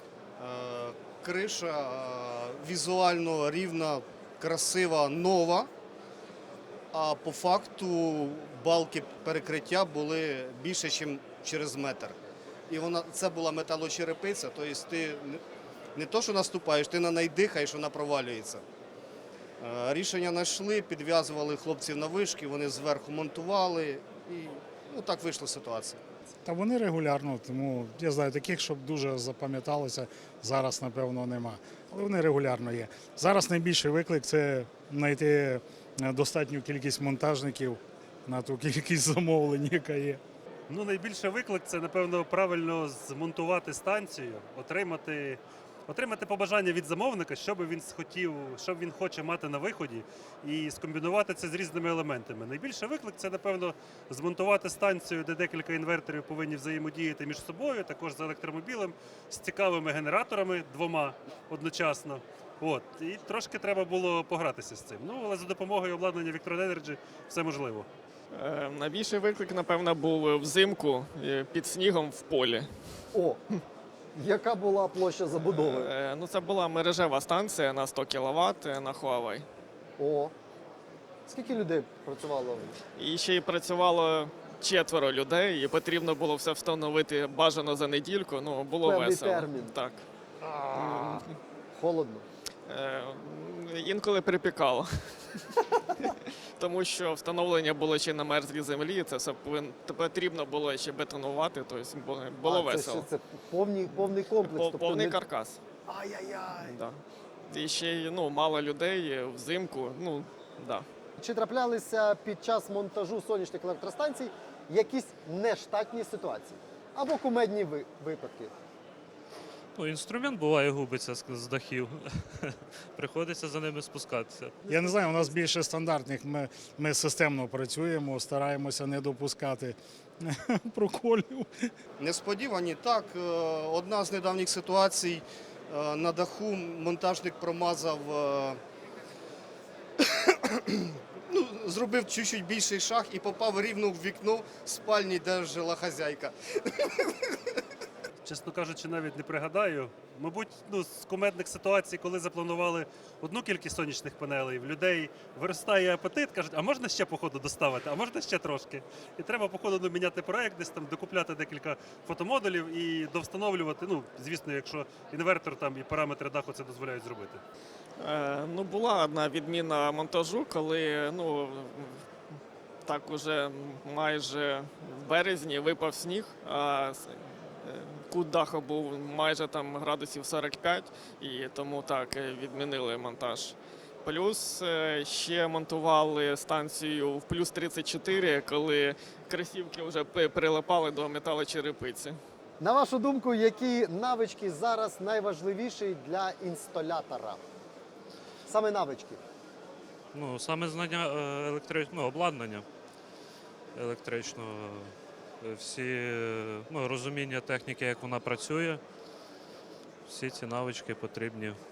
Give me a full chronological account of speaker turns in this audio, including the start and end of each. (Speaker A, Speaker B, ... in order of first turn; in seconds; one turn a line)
Speaker A: 0.4-5.7
Speaker A: 6.9-12.1
Speaker A: 12.7-15.4
Speaker A: 15.9-18.6
Speaker A: 19.6-26.0
Speaker B: 26.4-40.2
Speaker C: 40.7-67.9
Speaker D: 68.3-72.7
Speaker E: 73.1-73.4
Speaker E: 74.1-75.9
Speaker D: 75.5-79.5
Speaker E: 80.0-80.3
Speaker E: 81.2-82.8
Speaker D: 83.0-90.0
Speaker E: 88.8-89.7
Speaker E: 90.7-91.2
Speaker D: 90.7-91.3
Speaker E: 91.7-92.2
Speaker D: 92.7-95.4
Speaker D: 96.0-103.0
Speaker E: 102.4-105.2
Speaker D: 104.4-105.6
Speaker E: 105.8-106.8
Speaker D: 106.6-110.8
Speaker E: 111.2-118.5
Speaker F: 119.8-124.5
Speaker B: 124.7-131.7
Speaker A: 132.0-138.6
Speaker A: 140.0-147.4
Speaker C: 148.2-167.4
Speaker D: 168.0-172.0
Speaker D: 172.8-192.2
Speaker E: 192.6-197.4
Speaker E: 198.4-199.2
Speaker F: 200.1-202.6
Speaker F: 203.7-208.8
Speaker F: 210.1-211.6